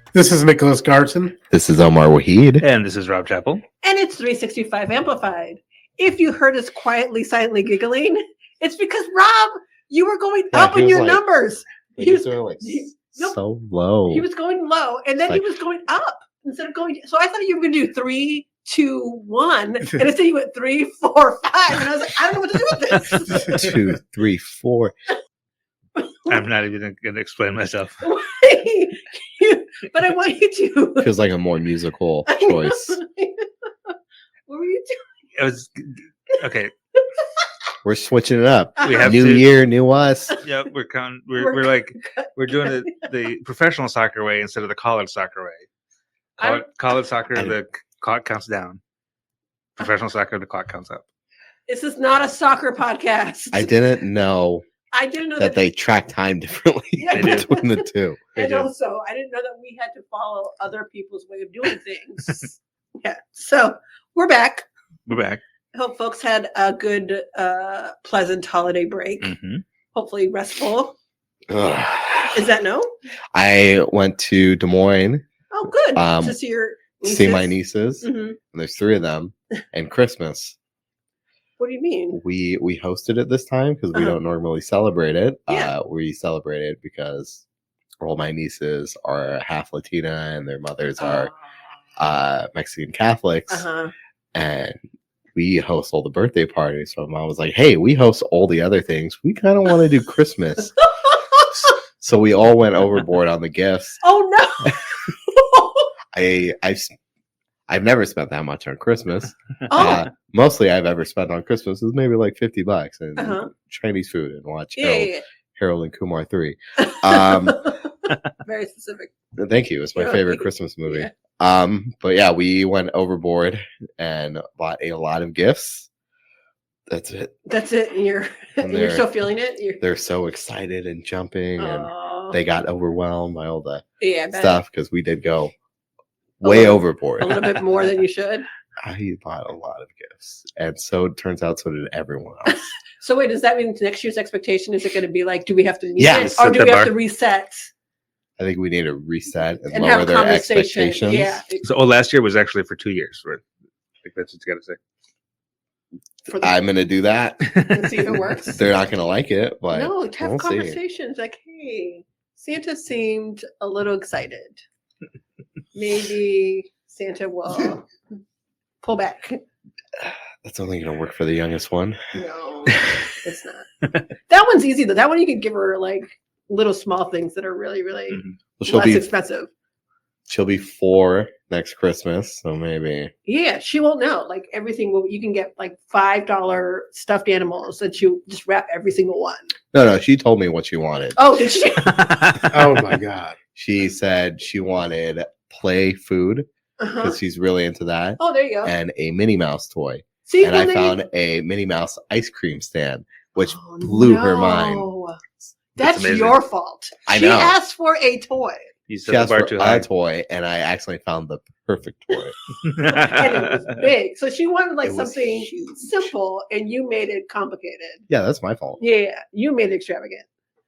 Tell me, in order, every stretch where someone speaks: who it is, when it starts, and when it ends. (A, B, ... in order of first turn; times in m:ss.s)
0:00.1-0:01.4 A
0:01.5-0:02.6 B
0:02.6-0:03.6 C
0:03.8-0:13.4 D
0:10.5-0:11.2 B
0:12.0-0:14.2 B
0:14.1-0:23.7 D
0:23.4-0:24.9 B
0:26.0-0:26.4 D
0:26.3-0:28.0 C
0:28.0-0:31.1 D
0:31.0-0:33.0 B
0:32.3-0:33.9 D
0:34.5-0:35.1 D
0:35.4-0:36.7 C
0:37.8-0:40.4 B
0:38.8-0:39.2 D
0:38.8-0:39.4 C
0:40.4-0:45.6 C
0:41.4-0:42.9 D
0:46.4-0:48.8 C
0:46.4-0:46.6 D
0:49.8-0:51.0 C
0:51.7-0:53.7 D
0:53.5-0:54.6 B
0:54.9-0:55.6 D
0:55.4-0:58.3 B
0:57.0-0:57.8 D
0:57.1-0:57.4 C
0:58.3-0:58.7 C
0:58.3-1:04.6 D
1:05.1-1:05.4 C
1:05.7-1:09.3 D
1:09.2-1:09.6 C
1:09.9-1:11.0 D
1:11.5-1:12.5 B
1:12.3-1:12.9 D
1:13.3-1:15.2 B
1:15.5-1:18.4 D
1:15.9-1:16.4 B
1:17.0-1:20.6 B
1:21.6-1:22.2 D
1:22.1-1:27.4 B
1:25.5-1:25.7 D
1:28.0-1:31.3 B
1:31.0-1:31.4 D
1:32.0-1:33.7 B
1:33.5-1:33.9 D
1:34.3-1:34.8 B
1:35.3-1:40.7 B
1:42.0-1:44.0 B
1:44.0-1:45.9 D
1:46.1-1:47.0 B
1:47.7-1:57.7 B
1:49.7-1:50.1 D
1:53.2-1:53.5 D
1:54.8-1:55.2 D
1:56.8-1:59.1 D
1:59.4-2:05.9 B
2:00.0-2:01.1 D
2:06.9-2:07.3 B
2:07.4-2:09.8 D
2:08.6-2:09.1 B
2:09.8-2:15.5 B
2:11.6-2:12.4 D
2:14.0-2:14.6 D
2:16.4-2:17.5 B
2:16.4-2:18.4 D
2:18.8-2:22.7 B
2:23.0-2:27.7 D
2:26.0-2:26.9 C
2:28.4-2:31.4 B
2:29.7-2:31.6 D
2:31.6-2:33.4 C
2:34.0-2:34.8 C
2:36.3-2:36.5 D
2:36.4-2:37.7 B
2:37.6-2:38.6 D
2:38.5-2:40.8 B
2:39.7-2:44.6 D
2:45.7-2:47.9 D
2:48.8-2:49.4 D
2:50.4-2:52.0 B
2:52.1-2:53.7 D
2:54.2-2:59.5 D
2:58.6-2:59.0 B
3:00.3-3:03.1 B
3:03.2-3:09.5 D
3:09.7-3:11.2 B
3:11.2-3:12.5 D
3:12.5-3:13.4 A
3:13.5-3:24.9 B
3:16.8-3:17.2 D
3:18.2-3:18.7 D
3:20.2-3:21.0 D
3:23.4-3:25.2 D
3:25.7-3:28.7 D
3:25.8-3:26.4 C
3:27.1-3:27.6 B
3:28.9-3:29.9 C
3:29.1-3:32.4 B
3:32.6-3:33.7 C
3:32.8-3:38.0 D
3:34.8-3:35.8 B
3:38.1-3:38.8 B
3:38.8-3:40.2 D